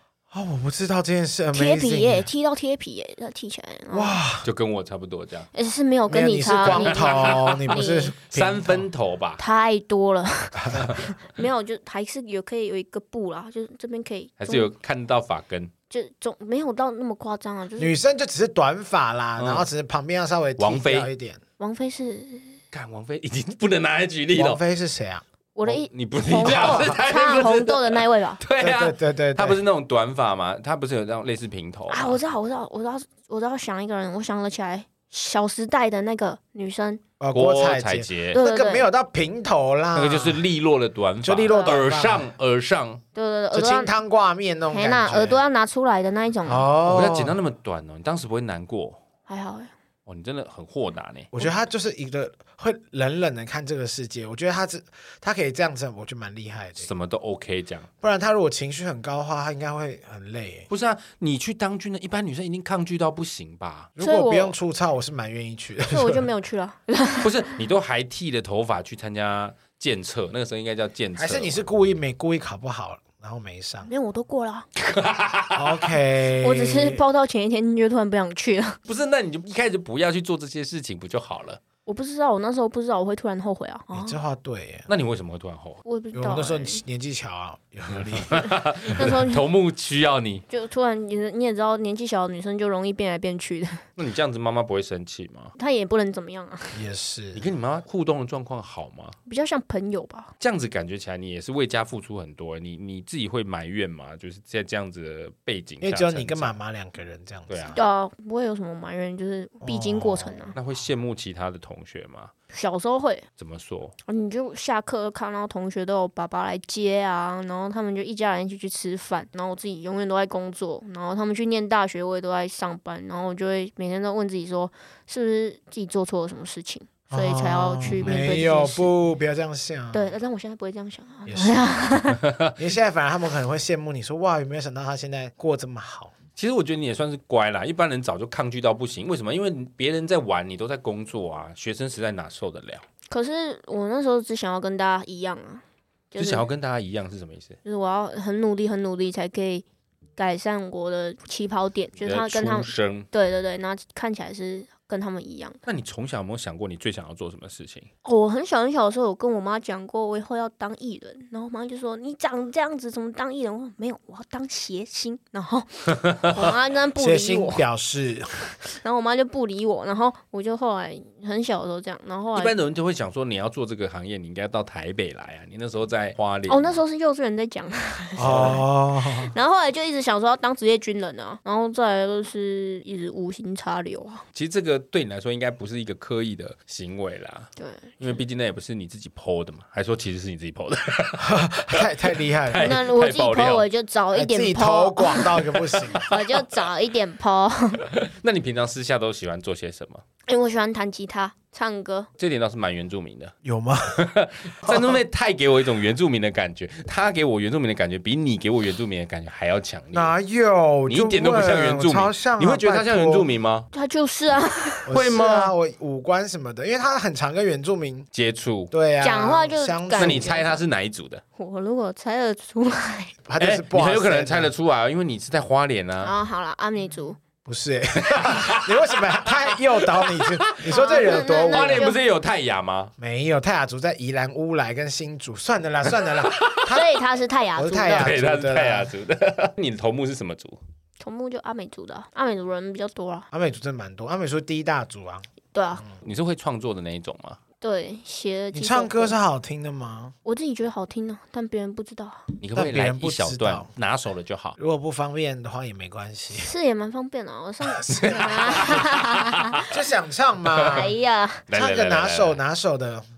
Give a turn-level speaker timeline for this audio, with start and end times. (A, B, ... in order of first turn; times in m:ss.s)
0:00.3-0:02.3 A
0:01.5-0:04.2 B
0:03.9-0:04.5 A
0:04.4-0:05.5 C
0:05.5-0:08.1 B
0:06.1-0:08.9 A
0:06.5-0:09.4 C
0:09.4-0:14.7 B
0:10.6-0:10.9 A
0:14.4-0:15.7 C
0:15.9-0:18.0 B
0:17.8-0:21.4 A
0:19.4-0:19.7 C
0:20.6-0:21.1 C
0:21.6-0:22.6 B
0:22.7-0:24.6 C
0:24.3-0:25.2 A
0:25.6-0:28.4 B
0:25.6-0:32.2 C
0:26.5-0:26.9 A
0:28.6-0:29.6 A
0:31.9-0:37.0 B
0:37.2-0:40.4 A
0:37.3-0:38.4 C
0:38.3-0:38.9 B
0:40.0-0:43.0 C
0:41.2-0:42.3 A
0:41.5-0:41.8 B
0:43.1-0:43.9 B
0:43.5-0:45.4 A
0:44.7-0:46.7 B
0:46.5-0:47.4 A
0:46.8-0:49.0 C
0:49.3-0:49.7 B
0:50.1-0:51.3 C
0:51.3-0:56.9 A
0:56.8-0:57.9 C
0:58.0-1:00.7 A
1:00.7-1:03.9 C
1:04.0-1:06.3 A
1:04.0-1:04.6 B
1:05.8-1:07.3 B
1:07.2-1:11.7 C
1:11.2-1:13.9 A
1:13.9-1:14.7 B
1:14.8-1:15.9 C
1:15.6-1:17.0 A
1:16.4-1:18.8 B
1:18.9-1:21.6 C
1:21.9-1:24.2 B
1:23.9-1:24.9 A
1:24.9-1:25.8 C
1:25.8-1:26.8 B
1:26.1-1:28.5 A
1:28.2-1:30.4 C
1:29.0-1:29.4 B
1:30.5-1:33.8 B
1:34.0-1:35.5 C
1:35.6-1:36.8 B
1:36.7-1:37.5 A
1:37.3-1:39.2 C
1:39.3-1:40.3 B
1:40.4-1:46.6 C
1:45.8-1:47.7 A
1:47.5-1:47.8 C
1:47.7-1:50.6 B
1:49.6-1:50.5 A
1:50.6-1:52.3 C
1:52.5-1:53.3 B
1:53.4-1:54.0 C
1:54.1-2:08.9 B
2:07.1-2:10.1 A
2:07.9-2:08.4 C
2:09.9-2:12.2 B
2:11.3-2:12.0 A
2:12.2-2:12.5 C
2:12.6-2:16.1 A
2:16.4-2:22.8 C
2:23.1-2:26.5 B
2:26.2-2:27.6 C
2:27.6-2:29.6 B
2:30.2-2:35.6 B
2:32.0-2:33.1 C
2:35.7-2:37.9 C
2:38.0-2:47.6 B
2:47.0-2:48.5 A
2:48.8-2:52.6 B
2:52.4-2:56.8 C
2:56.5-2:58.7 B
2:58.2-2:59.3 A
2:58.2-2:58.6 C
2:59.2-3:04.2 B
3:04.3-3:13.7 C
3:07.6-3:08.2 B
3:11.2-3:12.8 A
3:12.6-3:15.3 B
3:14.1-3:16.1 A
3:15.6-3:16.1 C
3:16.0-3:17.8 B
3:18.0-3:20.0 C
3:20.3-3:22.1 B
3:22.2-3:23.3 C
3:23.4-3:24.1 A
3:24.0-3:30.1 C
3:24.6-3:25.0 A
3:29.9-3:33.3 A
3:30.9-3:33.7 C
3:33.7-3:34.9 B
3:34.9-3:38.1 A
3:34.9-3:35.5 C
3:38.1-3:38.7 C
3:38.7-3:40.4 A
3:39.0-3:40.6 B
3:40.0-3:41.2 C
3:41.4-3:43.1 B
3:43.3-3:44.5 A
3:43.4-3:46.1 C
3:46.0-3:47.2 B
3:47.4-3:51.9 A
3:48.1-3:52.9 C
3:50.7-3:52.0 B
3:53.0-3:56.9 A
3:56.0-3:56.8 C
3:56.7-3:58.1 B
3:57.6-3:58.9 A
3:57.9-4:00.6 C
4:01.0-4:03.3 B
4:03.3-4:05.3 A
4:05.5-4:05.8 B
4:06.0-4:07.4 C
4:07.6-4:09.2 B
4:08.5-4:10.1 A
4:10.2-4:12.2 B
4:12.4-4:14.6 C
4:12.6-4:13.7 A
4:14.6-4:16.5 A
4:16.4-4:19.6 B
4:17.8-4:18.9 A
4:17.9-4:19.6 C
4:19.6-4:20.9 A
4:20.6-4:20.9 C
4:20.6-4:21.4 B
4:21.5-4:22.4 C
4:21.5-4:23.0 A